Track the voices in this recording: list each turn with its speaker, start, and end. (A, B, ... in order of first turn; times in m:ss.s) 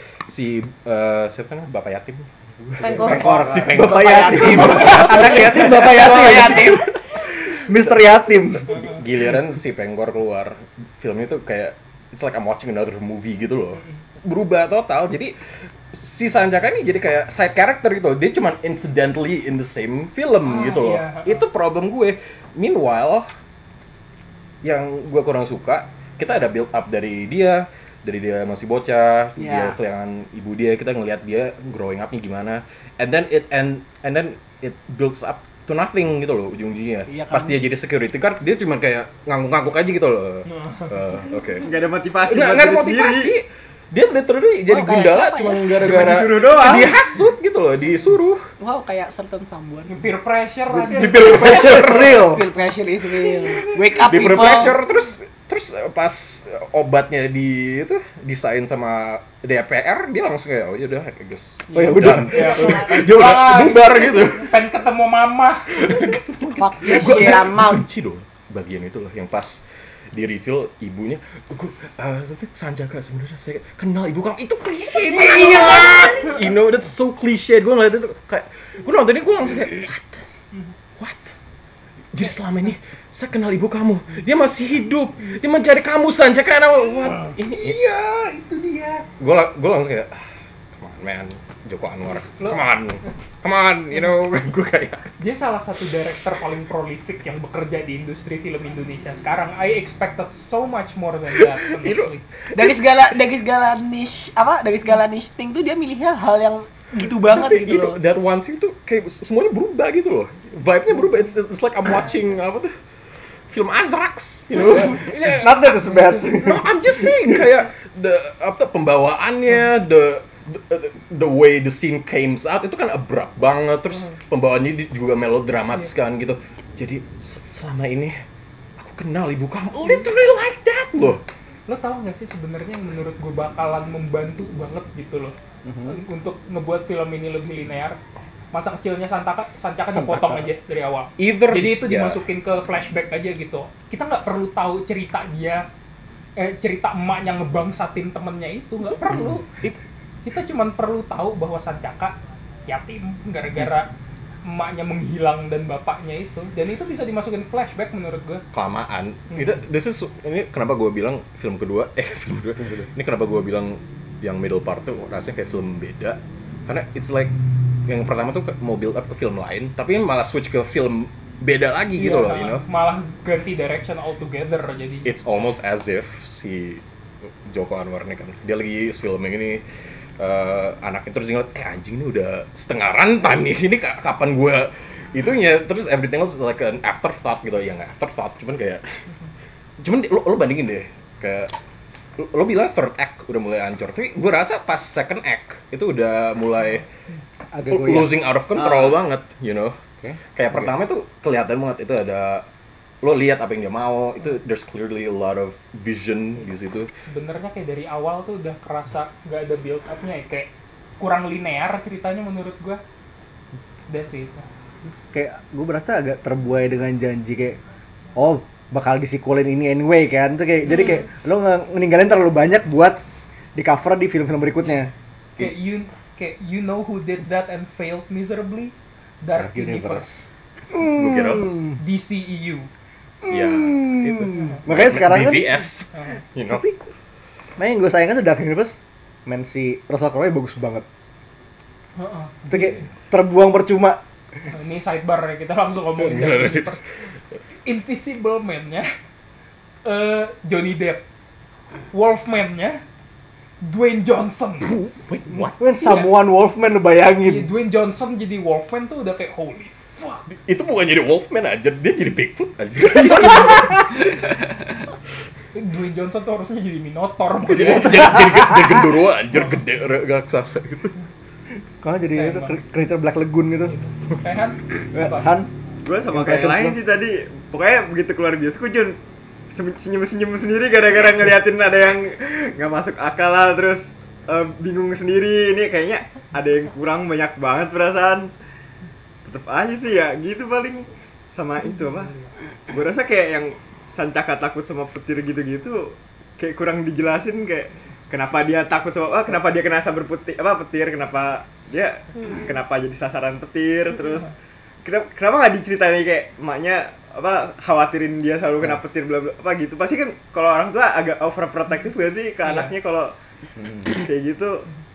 0:00.3-0:05.5 A
0:02.8-0:03.2 B
0:03.0-0:06.8 C
0:03.0-0:03.7 D
0:03.8-0:06.9 B
0:07.5-0:08.7 C
0:08.7-0:15.4 A
0:15.9-0:23.3 A
0:20.4-0:21.5 E
0:24.6-0:41.7 A
0:29.4-0:29.8 B
0:37.1-0:37.6 B
0:40.5-0:41.0 E
0:41.6-0:43.3 D
0:42.2-0:48.5 A
0:44.7-0:45.9 B
0:45.7-0:46.9 D
0:48.6-0:50.0 B
0:49.9-0:51.8 E
0:50.7-0:52.4 C
0:50.9-0:52.3 A
0:51.3-0:54.8 B
0:53.5-0:53.8 E
0:54.0-1:04.5 A
1:01.7-1:05.9 E
1:01.7-1:02.8 C
1:05.8-1:20.2 A
1:06.6-1:07.9 B
1:15.1-1:16.2 B
1:21.0-1:21.3 A
1:22.1-1:28.2 A
1:28.5-1:29.0 C
1:29.0-1:30.3 A
1:30.8-1:35.1 A
1:35.2-1:42.2 E
1:41.6-1:42.8 A
1:42.5-1:48.0 B
1:47.3-1:52.7 A
1:53.5-2:08.2 A
1:54.6-1:55.0 E
1:54.6-1:56.7 C
2:08.8-2:11.2 A
2:11.7-2:18.0 E
2:15.6-2:16.0 C
2:18.5-2:25.7 E
2:19.9-2:20.5 C
2:21.2-2:22.2 A
2:26.4-2:29.5 E
2:30.2-2:33.9 E
2:34.4-2:38.4 E
2:38.5-2:47.3 A
2:47.9-2:52.7 A
2:52.0-2:55.2 E
2:55.0-2:56.8 A
2:57.4-2:59.6 A
3:00.2-3:08.8 A
3:09.8-3:16.9 A
3:17.5-3:18.2 C
3:17.7-3:19.8 A
3:18.6-3:18.9 D
3:20.0-3:20.7 C
3:20.3-3:22.5 A
3:23.0-3:26.9 A
3:27.1-3:32.8 E
3:33.9-3:34.5 E
3:35.1-3:37.6 C
3:38.2-3:43.0 C
3:43.6-3:44.9 C
3:45.4-3:50.1 E
3:49.4-3:51.8 C
3:50.8-3:51.6 A
3:51.8-3:52.7 E
3:53.2-3:55.5 C
3:53.3-3:56.7 A
3:56.5-3:56.8 C
3:57.6-4:00.9 C
4:02.0-4:02.8 E
4:02.5-4:04.0 C
4:04.5-4:06.8 E
4:06.0-4:06.7 A
4:07.6-4:08.9 E
4:09.8-4:11.0 E
4:11.9-4:12.8 E
4:13.6-4:14.8 E
4:14.7-4:15.6 A
4:15.3-4:17.5 C
4:15.8-4:16.1 E
4:17.2-4:20.2 E
4:20.3-4:24.1 A
4:25.5-4:28.1 E
4:27.5-4:31.0 A
4:31.8-4:33.7 C
4:32.1-4:32.6 E
4:33.7-4:35.3 E
4:34.9-4:35.5 C
4:35.8-4:39.0 D
4:36.1-4:36.8 C
4:39.5-4:48.3 D
4:49.2-4:52.1 D
4:52.0-4:52.3 E
4:52.7-5:04.3 D
5:04.8-5:13.1 D
5:12.4-5:12.8 E
5:13.6-5:13.9 C
5:13.9-5:14.7 D